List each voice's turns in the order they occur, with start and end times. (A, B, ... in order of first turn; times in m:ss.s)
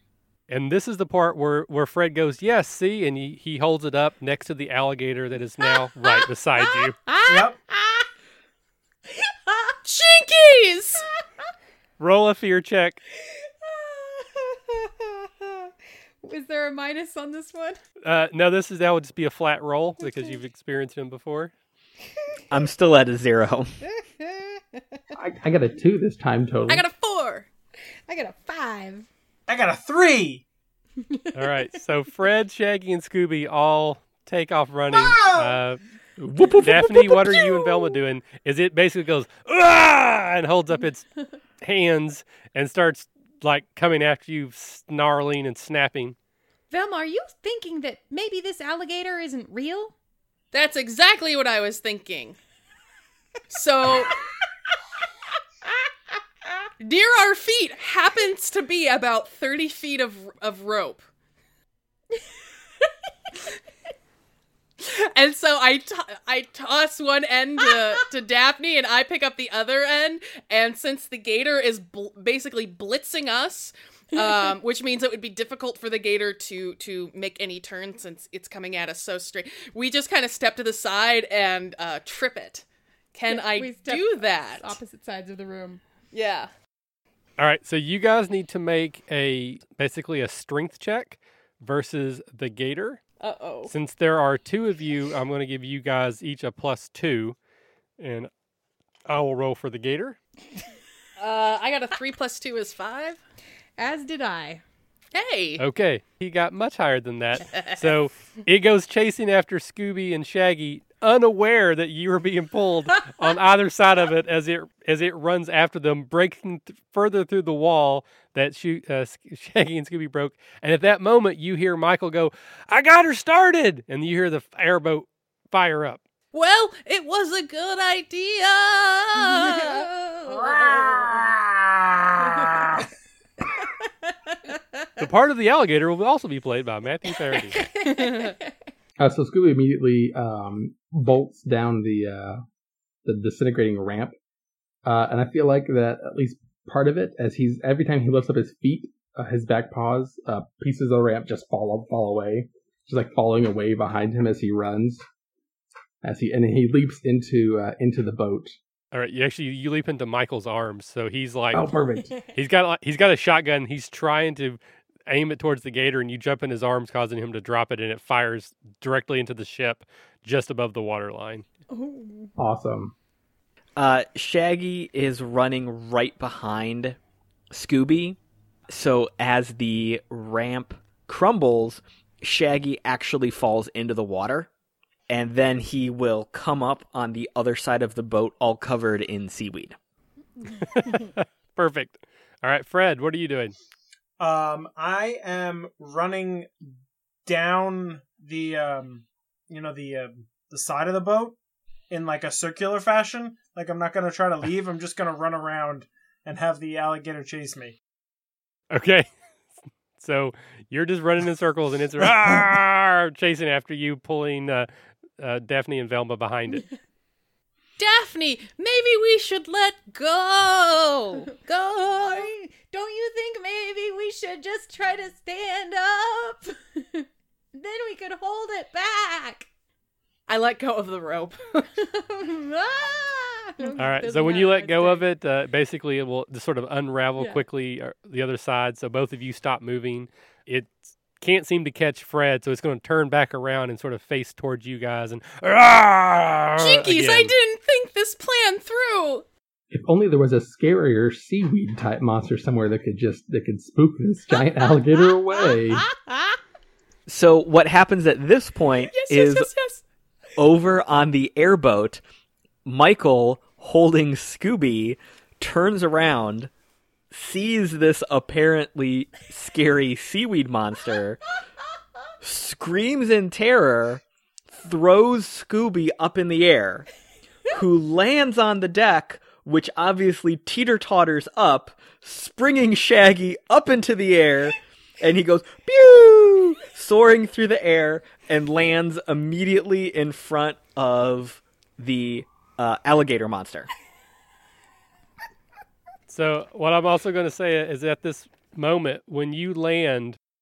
0:00.5-0:07.0 A
0:06.1-0:08.0 B
0:07.3-0:07.6 C
0:09.2-0:09.7 B
0:09.8-0:11.0 D
0:12.0-0:13.0 A
0:13.4-0:15.7 B
0:16.2-0:17.8 B
0:18.0-0:21.5 A
0:22.5-0:23.8 E
0:23.8-0:24.8 B
0:25.1-0:26.8 F
0:26.7-0:27.5 D
0:28.1-0:29.1 B
0:29.5-0:30.4 C
0:31.1-0:31.5 B
0:31.3-0:35.8 A
0:34.9-0:35.6 C
0:36.2-0:37.3 F
0:36.6-0:41.1 A
0:41.6-0:46.2 A
0:46.7-0:49.9 B
0:50.5-0:52.4 D
0:53.5-0:54.2 D
0:56.8-1:01.0 D
1:04.8-1:24.8 D
1:23.3-1:25.8 B
1:26.1-1:26.5 D
1:27.4-1:33.0 A
1:33.2-1:33.7 D
1:33.7-1:37.4 A
1:38.0-1:38.3 A
1:39.1-1:40.2 A
1:41.2-1:43.2 D
1:43.8-1:44.6 B
1:45.1-1:45.6 D
1:45.6-2:06.0 A
1:47.5-1:47.9 D
2:06.3-2:09.9 D
2:09.2-2:11.3 B
2:10.4-2:12.8 C
2:12.2-2:12.6 B
2:13.8-2:14.8 B
2:15.0-2:17.6 A
2:17.4-2:18.5 B
2:17.8-2:18.3 D
2:19.0-2:22.4 F
2:23.0-2:24.1 F
2:24.8-2:35.0 F
2:36.0-2:38.5 F
2:38.9-2:41.7 A
2:41.5-2:42.1 F
2:42.3-2:51.4 A
2:51.7-2:52.3 B
2:52.4-2:52.9 F
2:53.8-2:57.0 E
2:57.5-2:58.2 E
2:58.7-3:04.5 E
3:05.1-3:09.8 E
3:10.6-3:13.5 A
3:14.2-3:16.5 C
3:17.2-3:21.4 C
3:21.9-3:27.8 C
3:28.7-3:29.1 A
3:30.0-3:34.7 A
3:35.2-3:36.6 A
3:37.8-3:42.3 D
3:41.7-3:49.5 B
3:50.3-3:51.7 D
3:51.8-3:55.0 B
3:53.8-4:07.3 A
3:57.2-3:57.4 B
4:06.6-4:09.2 D
4:09.7-4:15.8 F
4:14.3-4:16.4 B
4:17.1-4:19.5 E
4:18.9-4:19.7 D
4:20.4-4:22.0 E
4:22.6-4:26.5 E
4:27.1-4:31.2 E
4:32.2-4:34.0 E
4:34.5-4:36.9 E
4:37.5-4:53.7 E
4:56.1-5:00.2 A